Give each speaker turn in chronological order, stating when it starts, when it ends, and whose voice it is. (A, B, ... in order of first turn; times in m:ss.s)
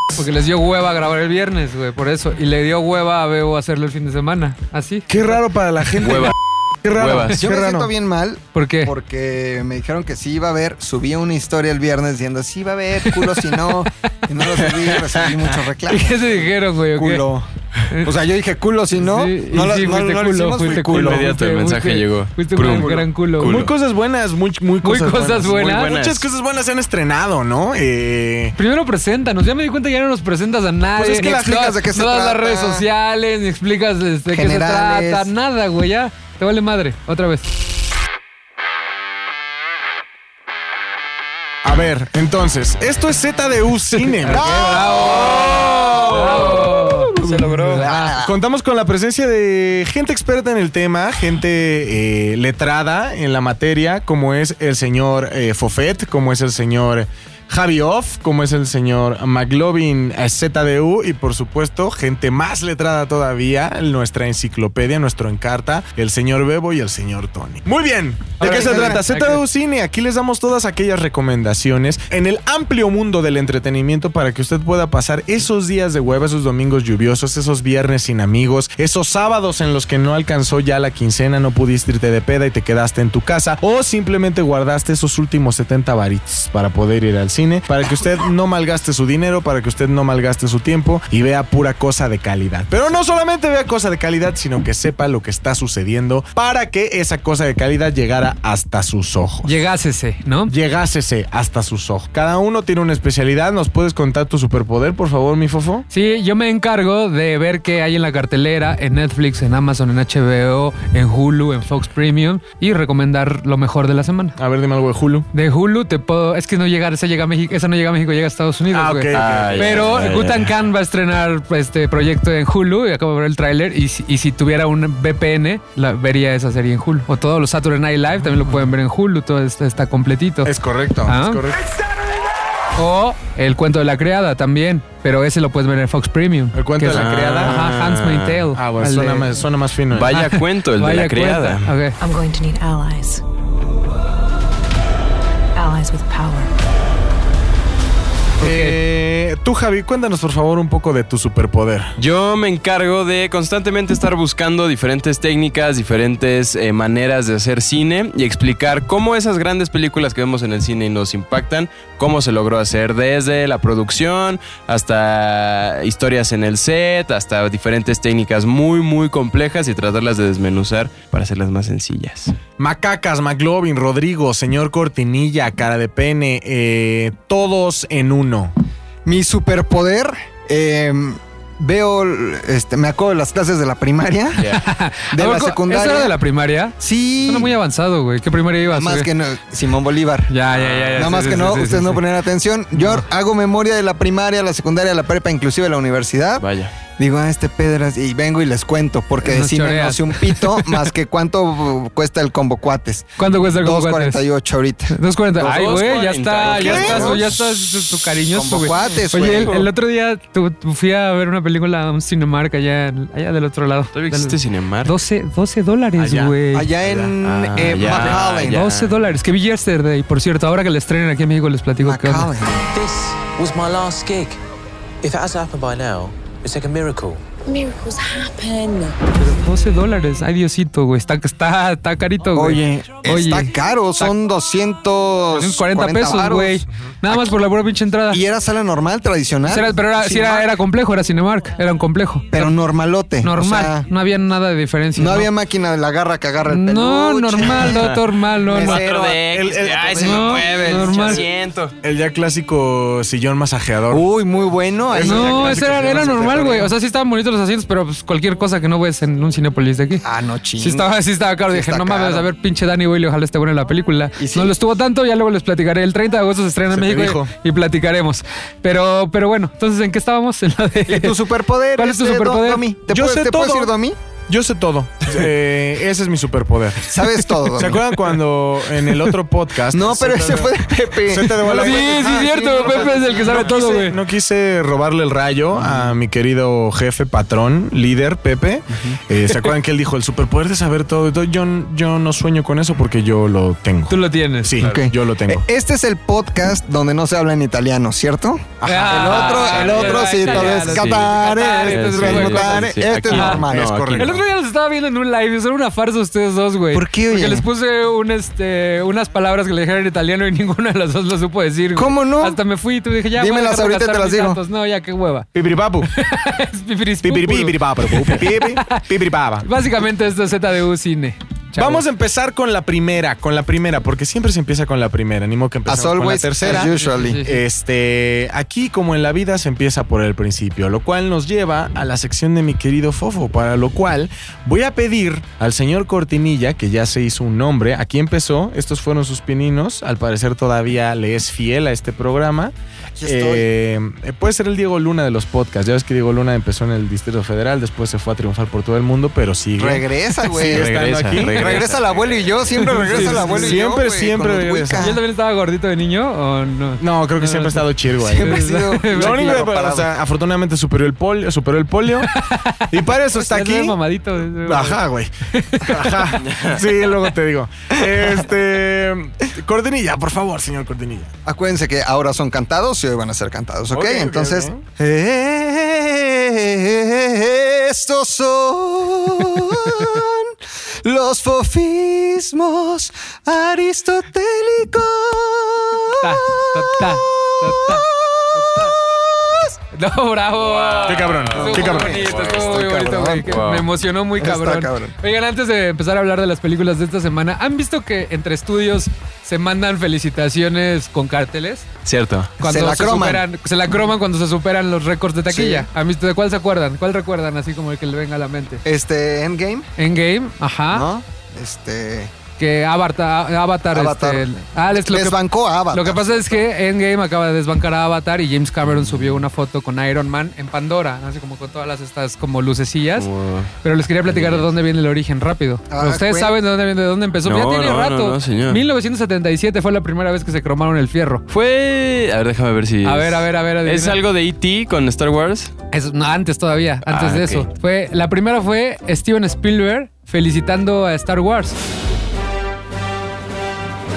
0:00.2-0:05.4 A
0:05.1-0:07.9 B
0:06.0-0:06.4 C
0:07.0-0:07.4 C
0:07.3-0:17.5 D
0:08.5-0:08.9 A
0:13.1-0:13.5 A
0:15.9-0:17.3 A
0:18.0-0:21.2 D
0:19.0-0:23.7 A
0:20.8-0:23.7 C
0:22.6-0:28.6 B
0:24.8-0:25.9 A
0:25.4-0:26.3 C
0:28.6-0:37.5 A
0:31.0-0:32.8 D
0:34.3-0:35.3 D
0:41.6-0:44.9 B
0:44.0-0:48.2 A
0:44.2-0:48.3 D
0:45.4-0:46.5 C
0:47.2-0:47.8 C
0:48.2-1:39.6 B
1:08.4-1:09.4 A
1:08.4-1:09.0 D
1:39.4-1:40.5 A
1:40.5-1:45.8 B
1:45.9-1:54.4 A
1:54.4-1:55.3 B
1:55.3-2:10.5 A
1:58.7-1:59.9 B
1:59.1-2:00.6 C
2:10.4-2:11.7 B
2:11.1-2:11.4 A
2:12.8-2:19.3 A
2:16.5-2:18.0 B
2:16.9-2:18.4 C
2:18.5-2:20.2 B
2:19.9-2:21.8 C
2:20.1-2:22.0 A
2:22.0-2:23.2 E
2:25.6-2:26.5 E
2:28.4-2:28.8 A
2:28.4-2:32.0 B
2:32.0-2:52.3 C
2:52.6-2:58.5 B
2:59.0-3:04.5 D
3:04.4-3:04.6 C
3:04.5-3:09.1 A
3:05.1-3:06.1 D
3:06.8-3:07.6 D
3:08.7-3:10.3 D
3:10.3-3:12.0 A
3:10.5-3:11.4 C
3:11.0-3:16.5 D
3:12.8-3:13.0 A
3:16.4-3:16.7 C
3:17.0-3:25.0 D
3:19.2-3:20.9 A
3:23.2-3:24.2 A
3:24.9-3:36.7 A
3:25.4-3:27.3 C
3:26.5-3:27.3 D
3:28.2-3:29.6 D
3:28.9-3:29.6 C
3:33.9-3:35.0 C
3:36.0-3:37.1 B
3:36.5-3:38.6 D
3:37.2-3:38.9 C
3:37.8-3:38.1 B
3:38.5-3:42.3 A
3:41.8-3:42.7 D
3:42.7-3:44.4 F
3:45.0-3:47.3 F
3:47.4-3:49.0 E
3:49.2-3:54.1 A
3:52.3-3:57.4 D
3:55.3-3:58.2 A
3:58.1-4:00.5 D
3:59.5-4:02.5 A
4:02.3-4:03.8 D
4:03.2-4:05.3 A
4:05.0-4:07.8 D
4:06.5-4:08.8 A
4:07.4-4:11.8 C
4:08.4-4:11.2 D
4:09.3-4:10.0 B
4:10.0-4:11.2 A
4:11.8-4:14.1 B
4:13.9-4:16.7 D
4:14.9-4:16.4 B
4:15.0-4:20.0 A
4:20.0-4:22.3 D
4:20.6-4:31.2 A
4:24.2-4:24.5 D
4:26.7-4:27.3 B
4:30.9-4:34.0 D
4:31.8-4:32.6 A
4:32.9-4:33.7 B
4:34.3-4:55.4 B
4:36.8-4:37.8 D
4:39.7-4:43.4 D
4:41.4-4:44.0 A
4:53.9-4:54.5 A
4:54.6-5:04.2 D
4:58.6-4:59.1 B
4:58.6-5:15.3 A
4:59.0-5:01.2 C
5:01.7-5:04.2 C
5:06.7-5:07.4 D
5:11.8-5:12.4 D
5:13.2-5:14.4 D
5:15.3-5:15.9 B
5:15.9-5:18.8 A
5:17.0-5:19.5 B
5:19.4-5:21.8 A
5:21.6-5:51.7 B
5:25.7-5:27.2 D
5:26.4-5:27.4 A
5:43.0-5:43.5 D
5:49.6-5:50.7 D
5:50.4-5:52.6 C
5:51.3-5:55.0 D
5:52.7-5:53.6 A
5:52.9-5:54.9 B
5:54.8-5:57.7 A
5:56.8-6:02.1 B
5:58.0-5:59.9 D
5:58.2-5:59.4 A
6:02.0-6:06.2 A
6:02.7-6:03.8 B
6:04.4-6:11.1 B
6:06.2-6:06.6 C
6:11.2-6:26.0 D
6:13.7-6:14.6 B
6:19.4-6:19.8 A
6:25.9-6:28.7 A
6:27.7-6:29.5 D
6:29.7-6:41.7 A
6:30.4-6:32.4 C
6:30.9-6:32.0 B
6:31.4-6:33.3 D
6:33.3-6:33.6 C
6:34.2-6:34.9 D
6:41.8-6:42.3 C
6:42.4-6:43.2 D
6:42.4-6:48.6 A
6:45.3-6:45.7 D
6:48.6-6:49.7 D
6:49.8-6:50.9 A
6:50.7-6:52.1 D
6:52.4-6:55.2 A
6:53.7-6:56.4 D
6:55.7-7:03.1 A
6:58.7-6:59.3 C
7:03.0-7:03.5 C
7:03.6-7:11.2 A
7:04.1-7:04.5 C
7:05.7-7:06.4 D
7:07.2-7:08.6 C
7:11.3-7:15.5 C
7:12.8-7:14.0 A
7:15.7-7:21.6 A
7:16.9-7:17.5 C